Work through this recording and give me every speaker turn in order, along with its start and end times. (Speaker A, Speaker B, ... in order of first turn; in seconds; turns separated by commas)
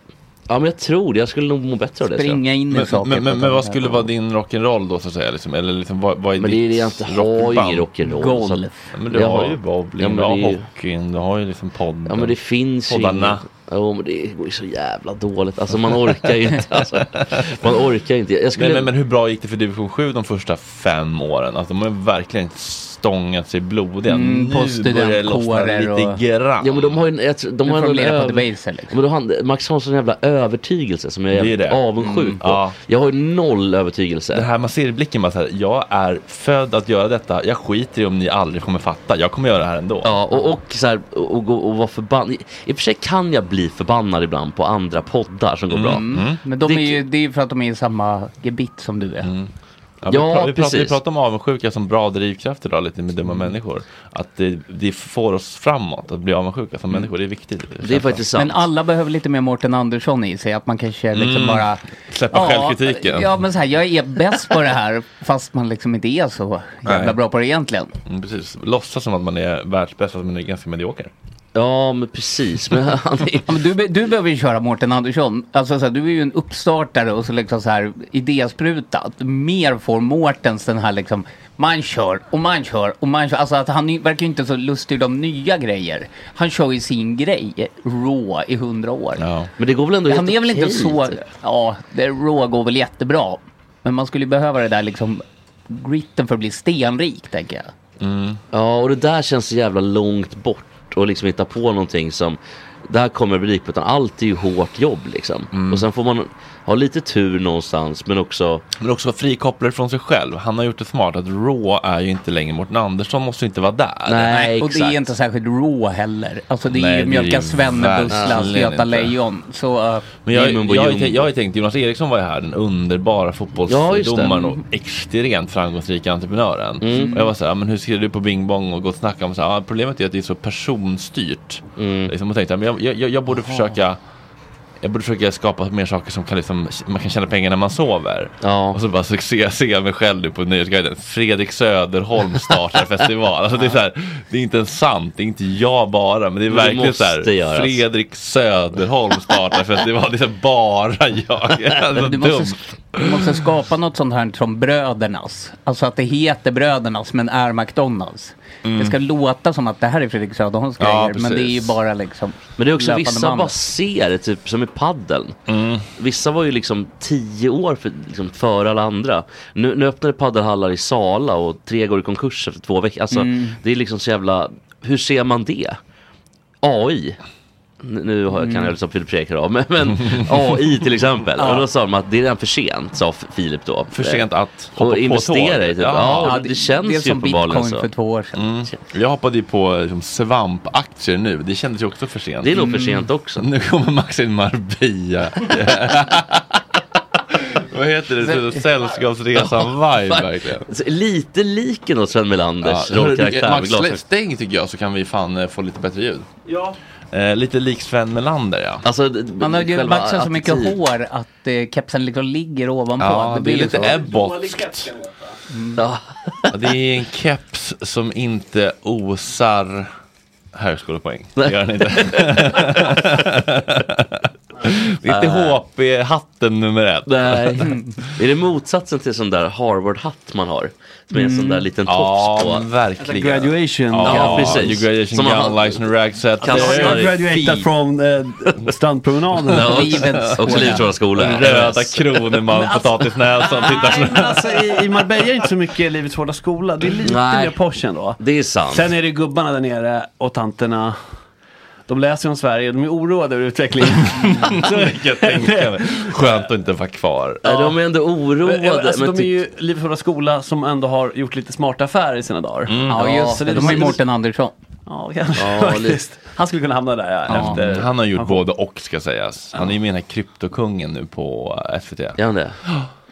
Speaker A: 0.5-2.4, Speaker B: 2.0-4.1, Speaker C: 2.7-7.9, Speaker A: 6.4-10.6, Speaker B: 8.1-8.7, Speaker C: 8.9-13.4, Speaker A: 12.1-18.9, Speaker C: 17.1-17.5, Speaker C: 18.6-27.0, Speaker B: 24.1-26.2, Speaker A: 26.6-34.5, Speaker B: 27.6-28.9, Speaker C: 31.3-32.8, Speaker B: 32.0-32.4, Speaker C: 34.3-40.1, Speaker A: 40.0-46.1, Speaker C: 45.7-46.4, Speaker B: 45.8-49.3, Speaker A: 46.6-47.0, Speaker C: 49.2-49.5, Speaker C: 50.0-58.2, Speaker A: 50.1-51.0, Speaker A: 57.8-58.6, Speaker B: 58.4-67.9, Speaker C: 61.1-63.3, Speaker C: 66.8-67.2, Speaker C: 68.1-71.1, Speaker A: 71.5-73.5, Speaker B: 73.5-89.2, Speaker C: 89.2-89.5, Speaker A: 89.6-91.2, Speaker B: 90.1-97.7, Speaker C: 98.0-98.4, Speaker A: 98.5-108.6, Speaker C: 105.5-105.8, Speaker C: 108.8-114.3, Speaker A: 114.1-115.1, Speaker B: 114.3-120.1, Speaker C: 116.7-119.1, Speaker C: 120.2-134.0, Speaker A: 120.3-121.3, Speaker A: 123.7-124.5, Speaker A: 126.8-127.2, Speaker B: 126.9-127.3, Speaker A: 131.8-132.1, Speaker C: 134.8-153.3, Speaker A: 138.4-138.8, Speaker A: 146.5-147.8, Speaker B: 151.9-163.5, Speaker C: 158.6-158.9, Speaker C: 160.8-161.7, Speaker A: 162.6-165.4, Speaker C: 165.5-165.9, Speaker A: 166.0-175.8, Speaker B: 173.1-173.6, Speaker A: 176.6-177.2, Speaker A: 177.8-187.9, Speaker B: 178.3-178.7, Speaker B: 181.4-181.6, Speaker C: 183.9-186.4, Speaker B: 186.2-188.4, Speaker C: 188.4-196.6, Speaker A: 192.4-193.4, Speaker C: 197.3-200.7, Speaker A: 199.3-204.0, Speaker C: 202.6-206.3, Speaker D: 206.5-206.7, Speaker C: 207.1-208.8, Speaker A: 208.8-210.8, Speaker B: 209.4-213.9, Speaker C: 213.0-214.9, Speaker D: 213.7-215.3, Speaker A: 215.8-216.6, Speaker C: 216.5-219.9, Speaker C: 220.5-227.7, Speaker A: 221.4-223.0, Speaker A: 225.0-225.6, Speaker A: 227.1-232.7, Speaker B: 231.1-231.6, Speaker C: 231.8-237.1, Speaker D: 233.0-234.8, Speaker A: 234.0-235.8, Speaker D: 236.4-239.9, Speaker A: 236.4-237.4, Speaker A: 239.4-242.3, Speaker B: 239.6-240.8, Speaker C: 240.3-245.2, Speaker D: 242.5-251.0, Speaker A: 247.0-247.6, Speaker A: 248.2-248.9, Speaker D: 251.9-256.4, Speaker C: 254.1-257.4, Speaker D: 257.4-257.8, Speaker A: 257.4-259.4, Speaker D: 258.4-264.0, Speaker C: 262.6-263.7, Speaker B: 262.9-264.5, Speaker D: 264.9-268.4, Speaker A: 265.4-266.0, Speaker C: 267.3-272.9, Speaker B: 267.3-267.6, Speaker A: 272.2-272.6